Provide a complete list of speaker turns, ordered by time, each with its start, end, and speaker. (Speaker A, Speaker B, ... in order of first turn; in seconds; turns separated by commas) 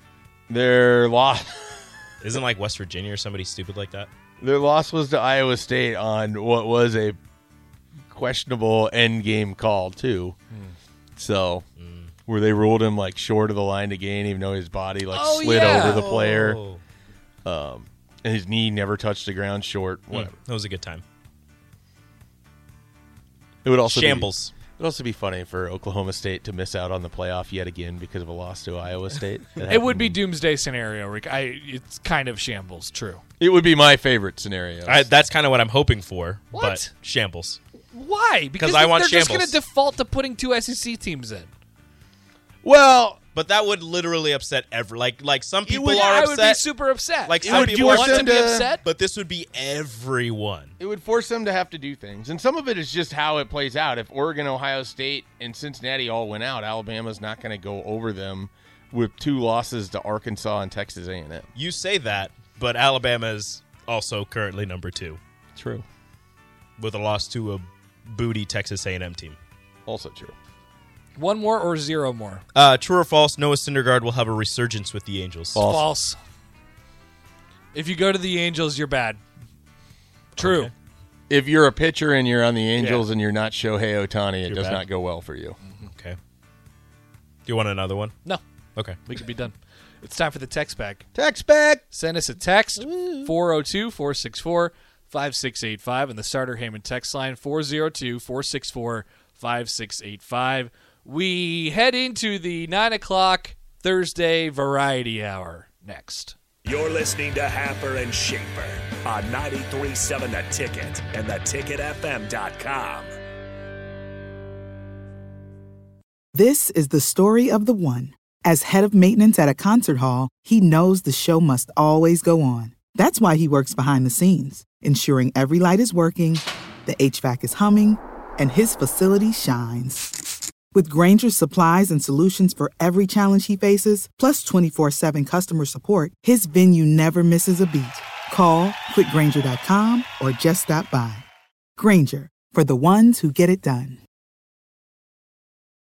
Speaker A: 0.5-1.9, Speaker B: 2.2-4.1, Speaker A: 4.4-7.2, Speaker A: 8.1-10.4, Speaker C: 10.5-10.8, Speaker A: 11.2-11.7, Speaker B: 11.8-12.1, Speaker A: 12.3-16.6, Speaker C: 15.1-16.1, Speaker B: 15.4-16.8, Speaker A: 17.4-20.3, Speaker B: 20.1-21.0, Speaker A: 23.6-30.2, Speaker B: 23.9-24.6, Speaker C: 29.7-33.2, Speaker A: 33.4-35.1, Speaker B: 34.9-37.6, Speaker C: 36.5-36.9, Speaker C: 37.9-41.5, Speaker B: 38.6-39.6, Speaker A: 42.6-43.2, Speaker B: 43.3-46.6, Speaker C: 45.9-48.9, Speaker B: 47.3-48.0, Speaker A: 47.4-48.7, Speaker B: 48.7-50.7, Speaker A: 50.8-61.5, Speaker B: 61.5-65.2, Speaker A: 65.5-65.8, Speaker B: 66.8-69.4, Speaker A: 69.9-70.3, Speaker C: 71.2-72.4, Speaker B: 72.5-75.7, Speaker A: 75.5-75.9, Speaker C: 75.7-76.2, Speaker C: 77.7-79.2, Speaker C: 80.4-80.7, Speaker B: 80.4-80.7, Speaker A: 81.3-85.6, Speaker C: 82.8-83.1, Speaker B: 84.5-84.8, Speaker B: 85.9-86.2, Speaker B: 87.5-88.2, Speaker B: 88.8-89.0, Speaker C: 89.1-91.1, Speaker A: 91.2-91.8, Speaker C: 91.9-106.4, Speaker D: 106.6-113.1, Speaker E: 116.3-130.1, Speaker E: 130.7-141.2, Speaker E: 141.8-144.0